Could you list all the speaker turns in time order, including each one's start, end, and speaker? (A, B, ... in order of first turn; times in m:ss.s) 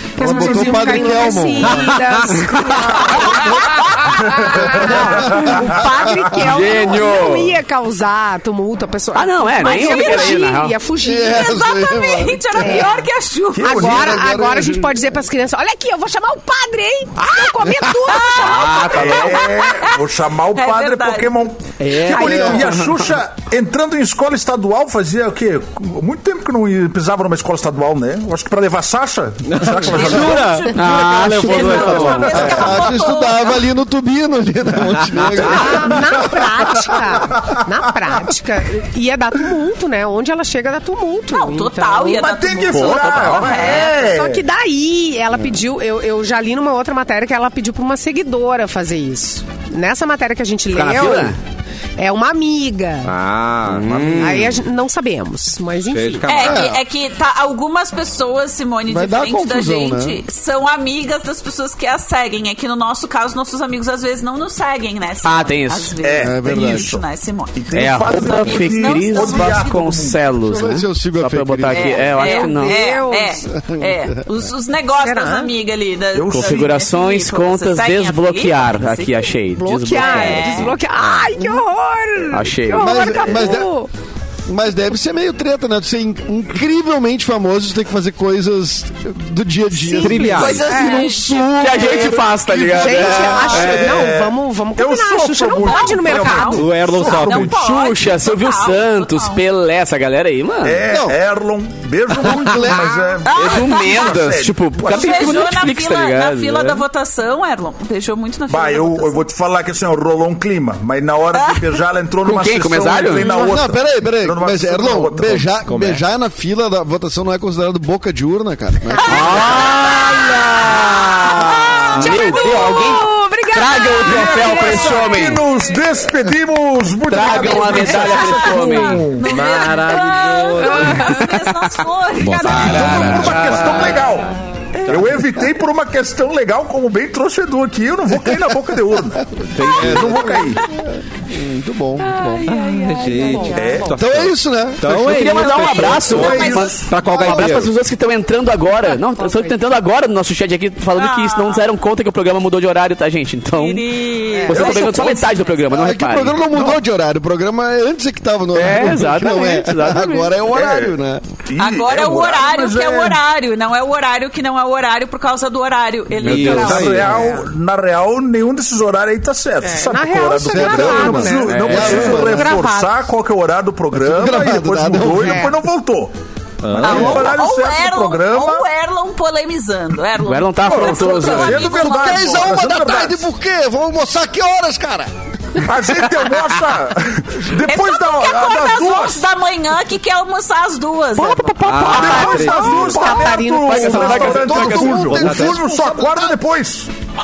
0:00.2-0:11.6 A
0:00.2-0:01.9 B
0:00.2-0:01.1 C
0:01.7-0:02.5 D
0:04.3-0:05.3 C
0:06.4-0:07.6 E
0:09.1-0:10.8 E
0:09.6-0:10.5 F
0:11.0-0:12.9 B
0:11.3-0:13.9 F
0:12.5-0:13.0 A
0:13.6-0:14.2 C
0:13.6-0:19.6 A
0:13.7-0:15.0 B
0:18.1-0:20.0 F
0:18.4-0:19.3 E
0:18.9-0:30.6 C
0:20.5-0:21.4 F
0:21.8-0:22.9 D
0:22.1-0:22.7 A
0:29.4-0:32.7 D
0:29.8-0:33.7 F
0:30.7-0:32.6 E
0:32.3-0:36.3 B
0:35.1-0:36.2 D
0:35.4-0:42.3 A
0:41.3-0:44.0 F
0:42.1-0:44.4 C
0:42.7-0:43.5 E
0:43.5-0:51.4 A
0:50.7-0:51.4 E
0:52.0-0:53.1 A
0:53.0-0:54.6 D
0:53.7-0:54.5 E
0:54.2-0:56.3 A
0:55.9-0:56.7 D
0:56.3-1:09.8 F
0:56.4-0:56.8 B
0:58.9-1:00.2 B
1:05.2-1:05.9 E
1:06.0-1:07.0 C
1:06.2-1:06.9 B
1:07.5-1:10.2 C
1:07.7-1:12.8 E
1:10.4-1:12.0 B
1:11.7-1:19.3 F
1:12.1-1:13.4 A
1:13.5-1:14.2 B
1:15.0-1:15.5 A
1:16.1-1:16.8 C
1:16.3-1:20.8 E
1:19.6-1:23.9 A
1:19.9-1:20.8 F
1:21.0-1:21.3 D
1:22.3-1:23.1 E
1:22.8-1:23.7 B
1:24.4-1:32.0 B
1:29.7-1:32.0 A
1:30.0-1:30.8 D
1:30.4-1:31.4 F
1:31.6-1:33.9 E
1:32.5-1:37.4 C
1:32.7-1:36.7 A
1:35.6-1:39.4 F
1:36.6-1:37.5 D
1:37.3-1:40.8 E
1:40.6-1:45.5 C
1:40.9-1:41.2 B
1:42.2-1:43.1 B
1:43.2-1:44.2 F
1:43.3-1:46.8 E
1:44.8-1:49.2 F
1:48.5-1:55.5 C
1:51.3-1:51.8 F
1:52.2-1:53.3 E
1:53.2-1:59.4 B
1:55.6-1:56.0 D
1:58.9-2:05.8 A
1:59.1-2:01.3 E
2:01.2-2:02.3 D
2:01.9-2:05.4 E
2:04.0-2:09.2 C
2:07.1-2:09.0 E
2:07.7-2:09.0 A
2:07.7-2:12.9 F
2:09.2-2:11.2 D
2:10.6-2:11.4 A
2:12.2-2:12.9 A
2:12.3-2:13.7 D
2:12.4-2:13.7 E
2:12.6-2:14.3 C
2:14.9-2:15.2 D
2:14.9-2:20.6 C
2:19.5-2:20.2 D
2:19.6-2:22.4 B
2:22.1-2:23.9 A
2:22.4-2:23.7 F
2:22.5-2:27.7 D
2:23.5-2:24.0 C
2:23.9-2:25.2 B
2:24.9-2:33.9 E
2:25.8-2:26.8 F
2:26.1-2:27.0 C
2:27.1-2:27.5 B
2:29.0-2:29.6 A
2:30.9-2:31.6 F
2:33.5-2:35.5 F
2:34.3-2:34.6 A
2:34.4-2:36.5 E
2:34.6-2:35.2 C
2:35.7-2:41.2 B
2:38.5-2:40.3 E
2:40.5-2:40.9 C
2:41.5-2:43.2 C
2:41.6-2:47.2 F
2:46.2-2:47.2 D
2:46.2-2:46.8 E
2:46.3-2:56.1 C
2:49.6-2:53.0 A
2:50.5-2:52.6 B
2:51.4-2:52.1 E
2:53.9-2:55.5 B
2:55.3-2:55.5 A
2:56.6-2:57.4 D
2:56.7-2:58.6 C
2:56.8-3:02.5 F
3:00.2-3:01.7 E
3:00.6-3:03.3 C
3:01.7-3:05.1 B
3:05.6-3:09.2 C
3:07.6-3:11.8 F
3:11.2-3:14.7 A
3:11.2-3:12.2 E
3:11.6-3:12.8 D
3:11.8-3:16.9 C
3:13.2-3:15.0 E
3:14.2-3:16.3 B
3:15.0-3:15.6 D